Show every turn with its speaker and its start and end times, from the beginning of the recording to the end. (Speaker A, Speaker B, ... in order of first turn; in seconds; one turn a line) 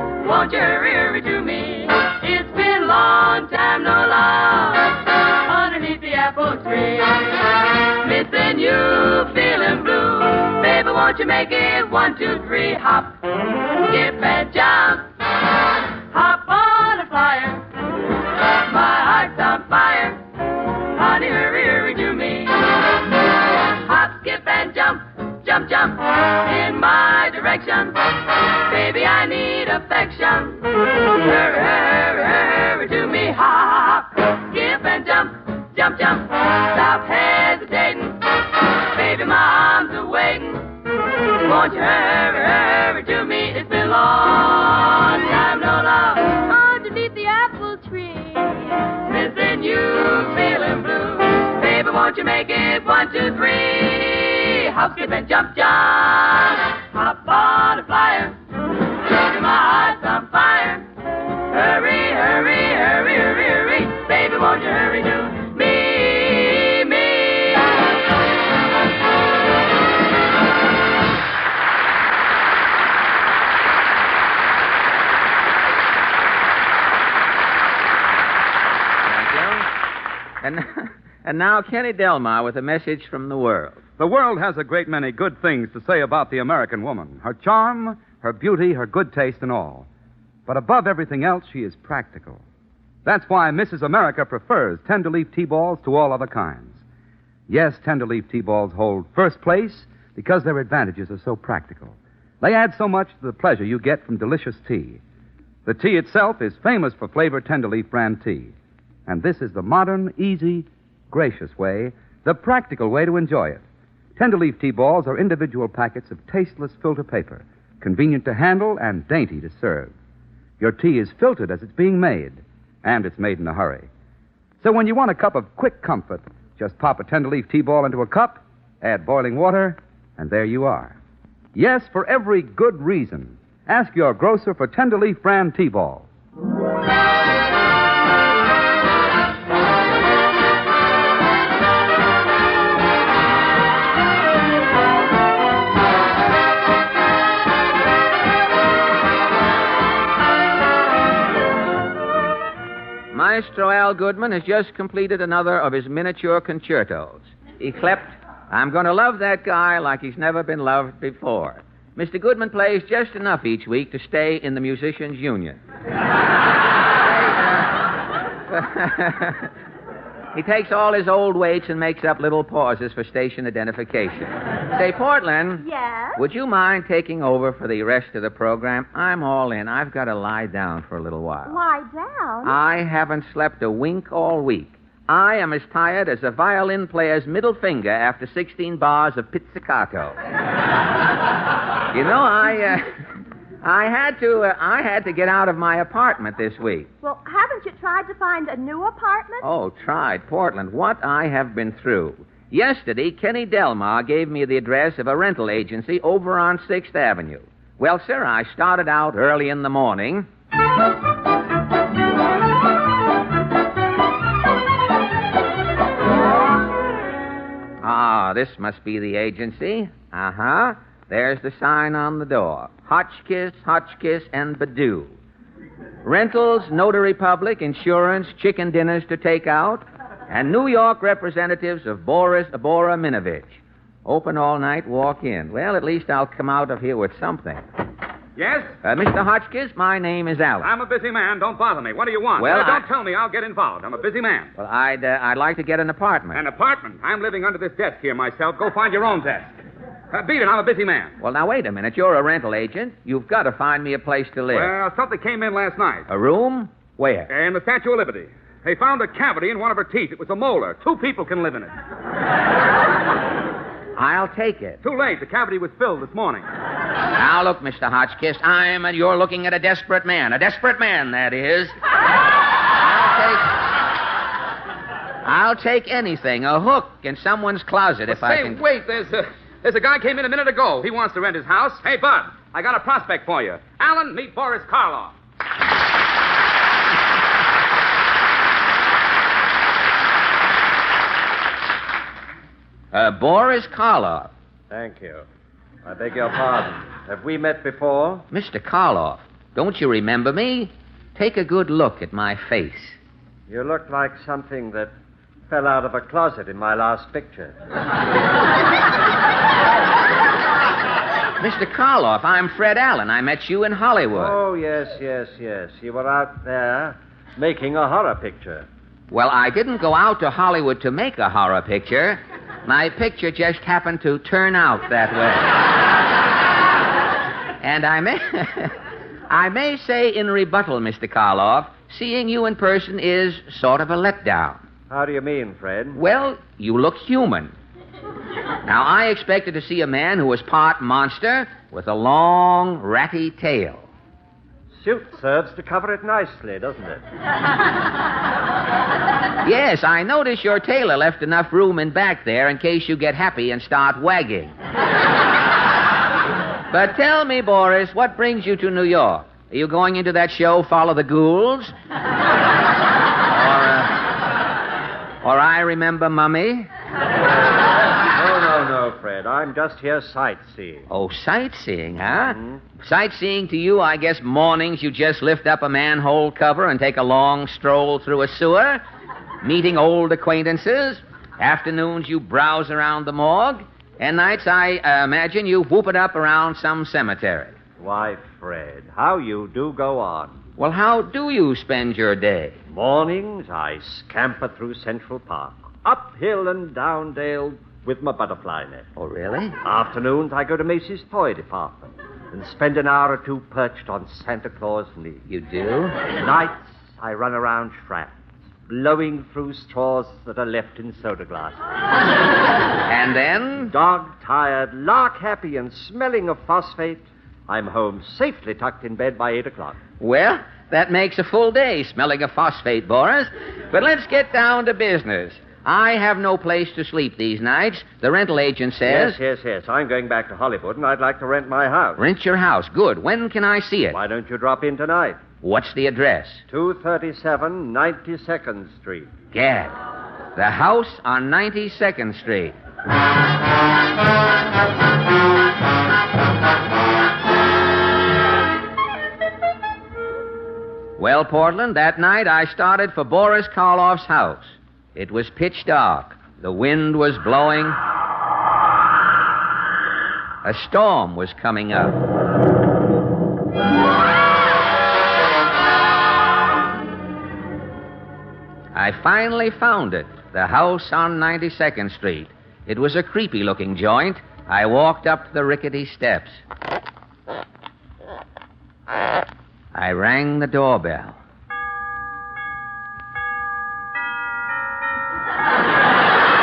Speaker A: 0.2-13.2
Speaker A: 13.7-15.1
Speaker A: 16.1-17.7
Speaker A: 18.6-20.2
Speaker A: 20.9-22.8
Speaker A: 23.8-58.4
Speaker A: 59.0-60.9
Speaker A: 61.5-67.8
Speaker B: 79.0-79.7
Speaker B: 80.4-83.8
Speaker C: 84.0-89.9
Speaker C: 90.5-92.4
Speaker C: 93.0-96.8
Speaker C: 97.5-105.0
Speaker C: 105.7-108.5
Speaker C: 109.1-113.6
Speaker C: 114.2-119.9
Speaker C: 120.6-123.9
Speaker C: 124.6-131.0
Speaker C: 131.6-136.1
Speaker B: 153.1-165.6
Speaker B: 167.0-167.7
Speaker B: 168.5-169.5
Speaker B: 170.3-181.6
Speaker D: 175.6-176.2
Speaker D: 181.5-182.6
Speaker B: 182.4-190.2
Speaker B: 191.9-192.9
Speaker B: 193.6-196.9
Speaker D: 197.0-199.4
Speaker B: 199.4-210.3
Speaker B: 217.8-225.1
Speaker B: 226.0-237.6
Speaker C: 238.4-238.7
Speaker B: 238.8-240.7
Speaker C: 240.6-244.5
Speaker B: 242.4-242.9
Speaker B: 244.6-246.4
Speaker C: 246.3-249.6
Speaker C: 250.1-251.1
Speaker B: 251.2-254.7
Speaker C: 254.5-256.1
Speaker B: 256.1-257.3
Speaker C: 257.3-261.7
Speaker B: 264.0-264.8
Speaker C: 264.8-266.5
Speaker B: 267.1-271.8
Speaker B: 272.8-273.5
Speaker B: 275.2-278.6
Speaker C: 278.1-285.1
Speaker B: 292.9-294.3
Speaker E: 294.7-295.2
Speaker E: 295.9-298.2
Speaker B: 298.3-303.0
Speaker E: 303.5-304.9
Speaker E: 305.5-307.6
Speaker B: 311.4-314.4
Speaker E: 314.1-318.6
Speaker B: 319.1-325.5
Speaker B: 327.6-328.8
Speaker B: 329.3-334.6
Speaker E: 334.9-336.0
Speaker B: 335.9-337.5
Speaker B: 338.6-343.9
Speaker E: 344.8-347.0
Speaker B: 349.4-354.5
Speaker B: 356.7-361.7
Speaker B: 363.3-363.9
Speaker B: 365.2-366.7
Speaker E: 368.1-370.9
Speaker B: 370.9-378.8
Speaker E: 372.2-372.6
Speaker B: 379.4-387.6
Speaker E: 387.8-390.4
Speaker B: 390.6-392.6
Speaker E: 392.7-398.9
Speaker B: 398.9-399.6
Speaker E: 399.6-405.2
Speaker B: 405.3-406.0
Speaker E: 406.1-411.6
Speaker B: 412.9-413.7
Speaker E: 413.6-419.8
Speaker B: 420.0-429.2
Speaker E: 428.9-432.0
Speaker B: 432.0-434.0
Speaker E: 433.9-435.2
Speaker B: 435.4-436.4
Speaker E: 436.5-439.1
Speaker B: 439.3-439.8
Speaker B: 440.4-442.6
Speaker B: 451.0-457.8
Speaker B: 460.4-462.0
Speaker B: 468.7-476.4
Speaker B: 479.7-481.2